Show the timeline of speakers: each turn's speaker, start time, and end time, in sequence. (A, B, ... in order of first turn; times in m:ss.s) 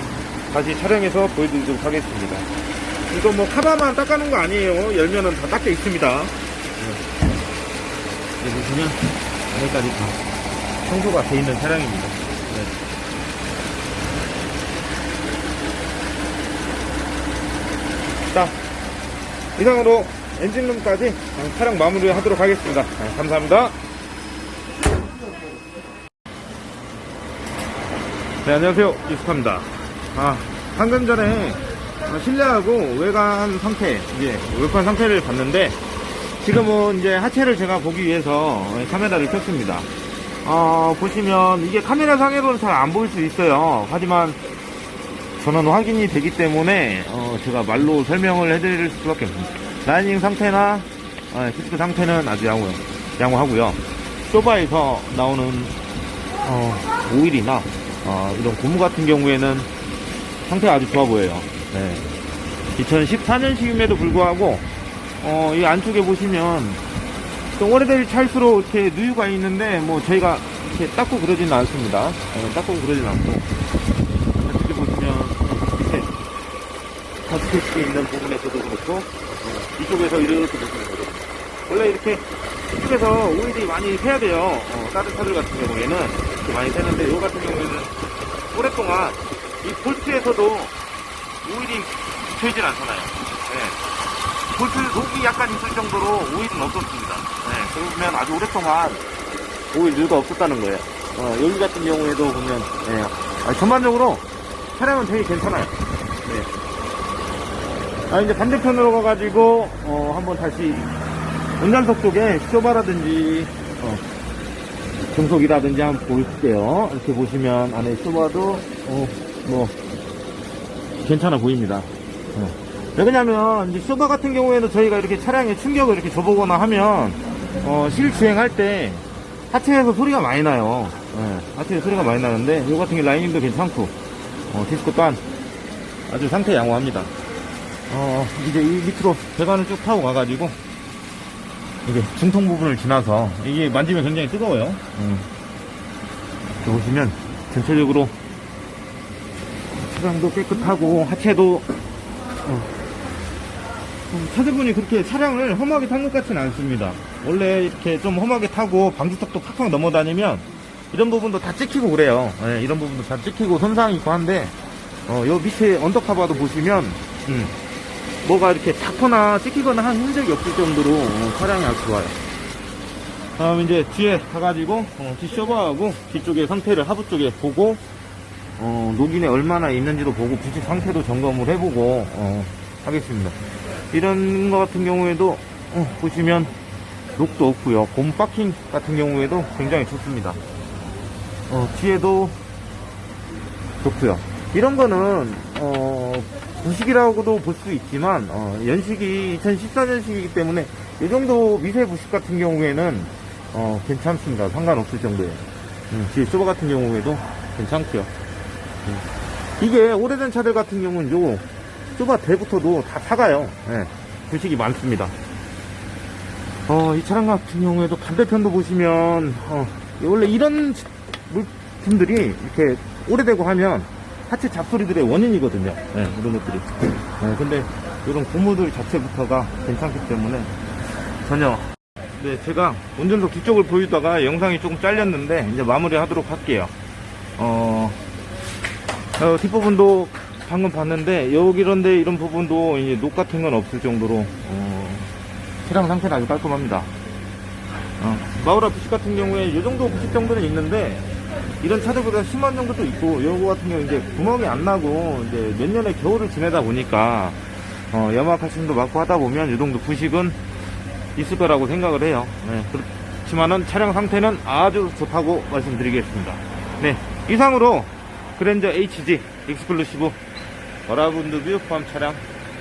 0:00.5-0:07.0 A
0:08.4-0:10.2 A
0:10.8-0:12.7 A
0:18.3-0:18.6 A
0:19.6-0:23.8 A
0:28.4-0:35.8 A
0:36.4-0:39.9 A
0:40.4-0:44.4 A
0:45.4-0:55.8 A
0:56.4-0:59.7 A
1:00.5-1:02.1 A
1:02.8-1:04.7 A
1:05.2-1:06.8 A
1:07.5-1:13.5 A
1:14.3-1:16.2 A
1:17.2-1:27.9 A
1:28.5-1:30.7 A
1:31.4-1:33.8 A
1:34.5-1:39.0 A
1:39.7-1:46.5 A
1:48.1-1:50.9 A
1:51.6-1:54.0 A
1:55.1-1:59.8 A
2:01.0-2:14.0 A
2:14.5-2:15.2 A
2:16.1-2:17.1 A
2:17.9-2:20.6 A
2:21.8-2:25.3 A
2:26.6-2:28.1 A
2:29.8-2:31.7 A
2:32.4-2:32.7 A
2:34.1-2:44.6 A
2:45.1-2:47.5 A
2:48.2-2:52.2 A
2:53.4-2:57.8 A
2:58.6-3:06.5 A
3:07.2-3:10.4 A
3:11.5-3:12.4 A
3:13.8-3:28.1 A
3:29.6-3:35.1 A
3:36.7-3:50.5 A
3:51.2-3:56.7 A
3:57.4-3:58.0 A
3:59.2-4:05.1 A
4:05.6-4:06.9 A
4:08.0-4:11.1 A
4:11.6-4:20.4 A
4:21.1-4:30.2 A
4:30.9-4:32.2 A